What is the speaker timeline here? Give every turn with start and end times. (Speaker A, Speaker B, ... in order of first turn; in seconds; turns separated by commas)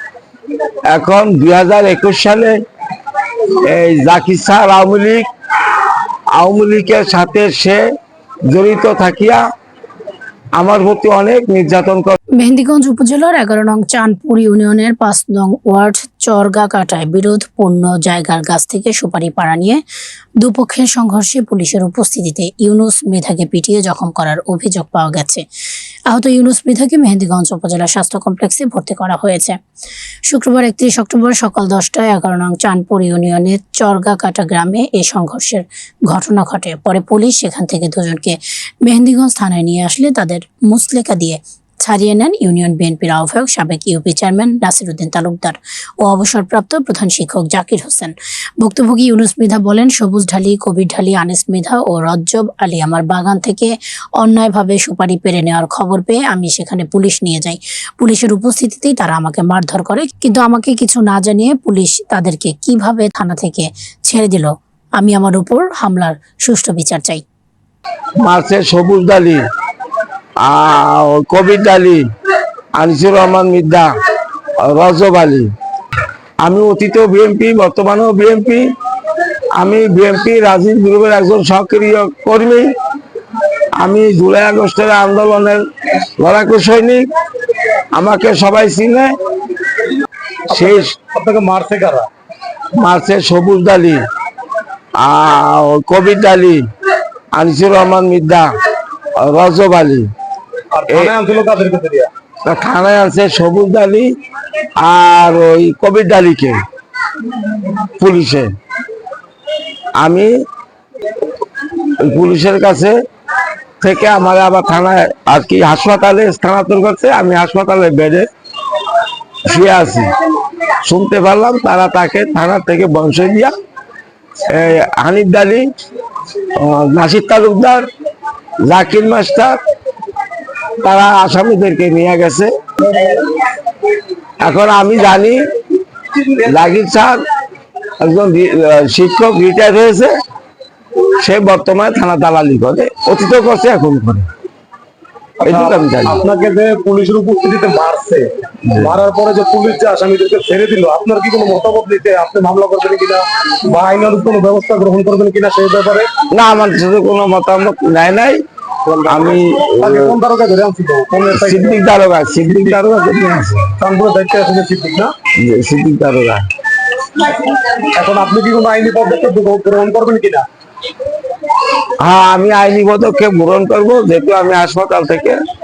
Speaker A: 0.9-2.5, Speaker A: 3.6-5.3, Speaker A: 6.4-7.8, Speaker A: 8.5-9.4, Speaker A: 10.6-12.2, Speaker B: 12.4-19.8, Speaker B: 20.4-25.4, Speaker B: 26.1-29.6, Speaker B: 30.3-67.2, Speaker A: 68.2-69.4, Speaker A: 70.4-72.0, Speaker A: 72.8-73.9, Speaker A: 74.6-75.5, Speaker A: 76.4-78.7, Speaker A: 79.6-82.7, Speaker A: 83.8-85.6, Speaker A: 86.2-87.0, Speaker A: 87.9-89.1, Speaker C: 90.5-92.1, Speaker A: 90.5-90.9, Speaker A: 92.8-94.0, Speaker A: 95.0-96.6, Speaker A: 97.3-98.5, Speaker A: 99.2-100.1, Speaker C: 100.7-102.1, Speaker A: 102.5-104.1, Speaker A: 104.8-106.6, Speaker A: 108.0-108.5, Speaker A: 110.0-110.3, Speaker A: 112.0-112.9, Speaker A: 113.8-118.3, Speaker A: 119.5-120.1, Speaker A: 120.8-123.5, Speaker A: 124.5-125.7, Speaker A: 126.6-127.9, Speaker A: 128.7-129.6, Speaker A: 130.8-132.5, Speaker A: 134.4-135.4, Speaker A: 136.4-137.2, Speaker A: 138.0-140.1, Speaker A: 141.2-144.3, Speaker C: 145.4-156.1, Speaker A: 145.4-146.2, Speaker A: 156.3-158.4, Speaker C: 158.9-161.8, Speaker A: 159.1-160.2, Speaker A: 161.3-163.7, Speaker C: 163.8-165.1, Speaker A: 165.3-166.4, Speaker C: 167.9-170.5, Speaker A: 172.0-175.4